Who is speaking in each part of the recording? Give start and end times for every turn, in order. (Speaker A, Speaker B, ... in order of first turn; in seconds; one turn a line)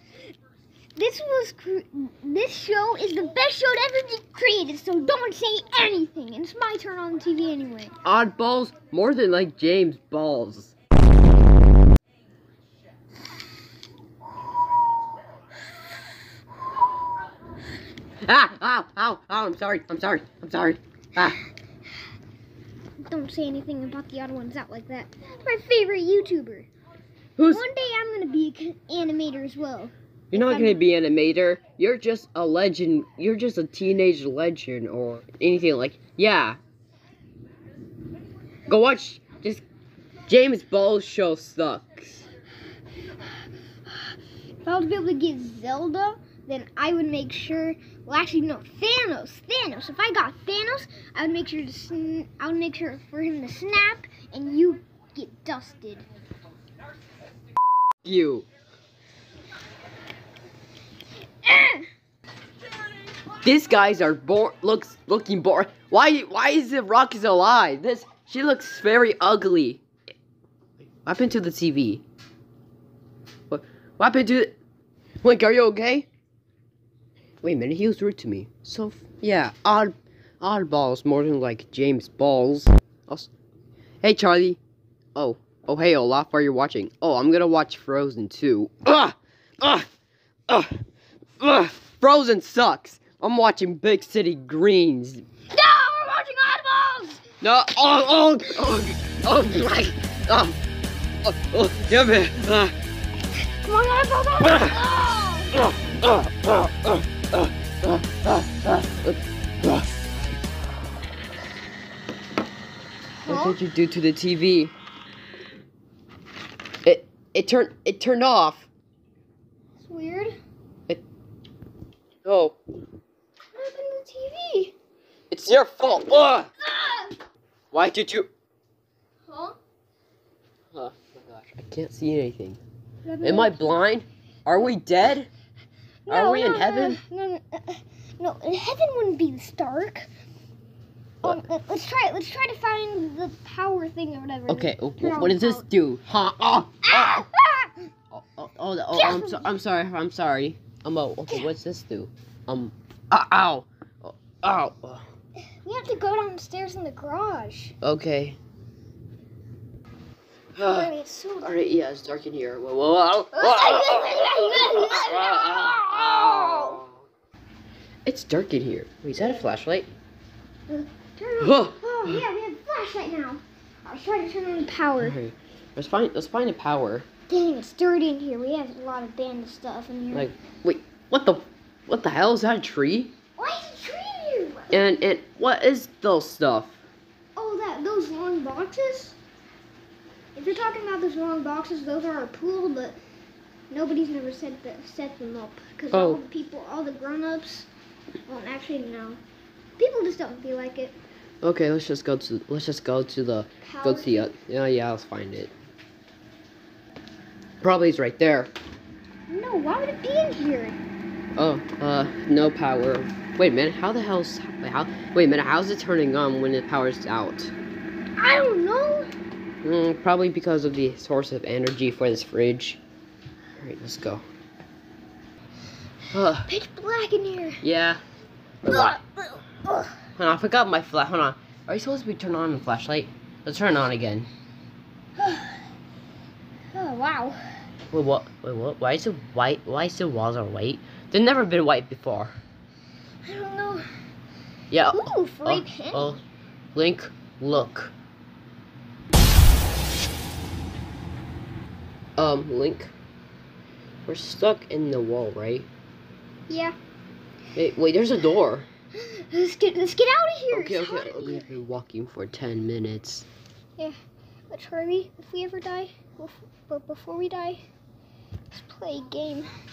Speaker A: 0.9-7.9
Speaker B: 8.0-10.7
Speaker B: 18.2-21.4
Speaker A: 23.0-26.7
Speaker B: 27.4-27.6
Speaker A: 27.4-30.8
Speaker B: 30.3-36.6
Speaker B: 38.6-39.6
Speaker B: 40.3-42.3
Speaker A: 44.6-56.0
Speaker B: 58.0-58.5
Speaker A: 61.4-61.9
Speaker B: 63.4-69.8
Speaker B: 71.0-72.0
Speaker B: 73.5-74.6
Speaker B: 75.2-76.1
Speaker B: 77.4-83.3
Speaker B: 84.0-84.6
Speaker B: 85.1-89.9
Speaker B: 90.5-90.8
Speaker B: 91.4-95.2
Speaker A: 95.5-97.2
Speaker B: 97.4-100.6
Speaker B: 101.2-102.7
Speaker A: 103.4-105.6
Speaker B: 105.8-109.9
Speaker A: 113.2-113.6
Speaker B: 113.2-114.7
Speaker B: 116.8-118.7
Speaker A: 119.8-120.3
Speaker B: 122.2-122.5
Speaker A: 123.5-124.7
Speaker B: 125.3-126.5
Speaker A: 126.6-127.2
Speaker B: 127.7-128.3
Speaker A: 129.3-129.6
Speaker B: 130.7-132.6
Speaker A: 133.0-133.7
Speaker B: 133.2-135.3
Speaker A: 136.1-140.1
Speaker B: 136.1-137.0
Speaker A: 141.2-145.6
Speaker B: 144.5-147.3
Speaker A: 146.8-147.9
Speaker B: 148.1-155.0
Speaker A: 148.9-149.5
Speaker A: 155.6-157.7
Speaker B: 157.8-158.4
Speaker B: 160.6-167.0
Speaker A: 160.6-161.5
Speaker A: 163.3-166.8
Speaker B: 168.0-169.9
Speaker A: 170.7-175.2
Speaker B: 171.4-172.2
Speaker B: 175.0-177.1
Speaker A: 177.3-180.3
Speaker B: 180.1-183.1
Speaker A: 183.3-184.9
Speaker B: 184.7-186.8
Speaker A: 187.3-189.2
Speaker A: 190.3-193.0
Speaker A: 193.7-197.7
Speaker B: 195.9-196.2
Speaker A: 198.3-199.2
Speaker A: 199.8-201.0
Speaker B: 201.4-205.5
Speaker A: 203.6-204.3
Speaker B: 207.6-208.5
Speaker A: 209.3-210.8
Speaker B: 211.3-217.5
Speaker A: 218.2-219.1
Speaker B: 219.6-222.8
Speaker B: 223.6-224.2
Speaker B: 226.1-226.5
Speaker A: 226.4-227.6
Speaker B: 227.6-228.0
Speaker B: 228.6-229.0
Speaker A: 228.7-230.0
Speaker B: 230.2-234.3
Speaker A: 235.2-235.6
Speaker A: 236.7-237.6
Speaker B: 237.9-242.3
Speaker A: 243.2-243.8
Speaker B: 244.7-246.2
Speaker A: 244.9-246.1
Speaker B: 246.7-247.9
Speaker B: 252.2-252.9
Speaker B: 254.1-255.7
Speaker A: 256.5-256.8
Speaker B: 257.6-258.7
Speaker A: 258.9-261.5
Speaker B: 260.5-263.3
Speaker A: 264.5-267.6
Speaker A: 268.5-269.5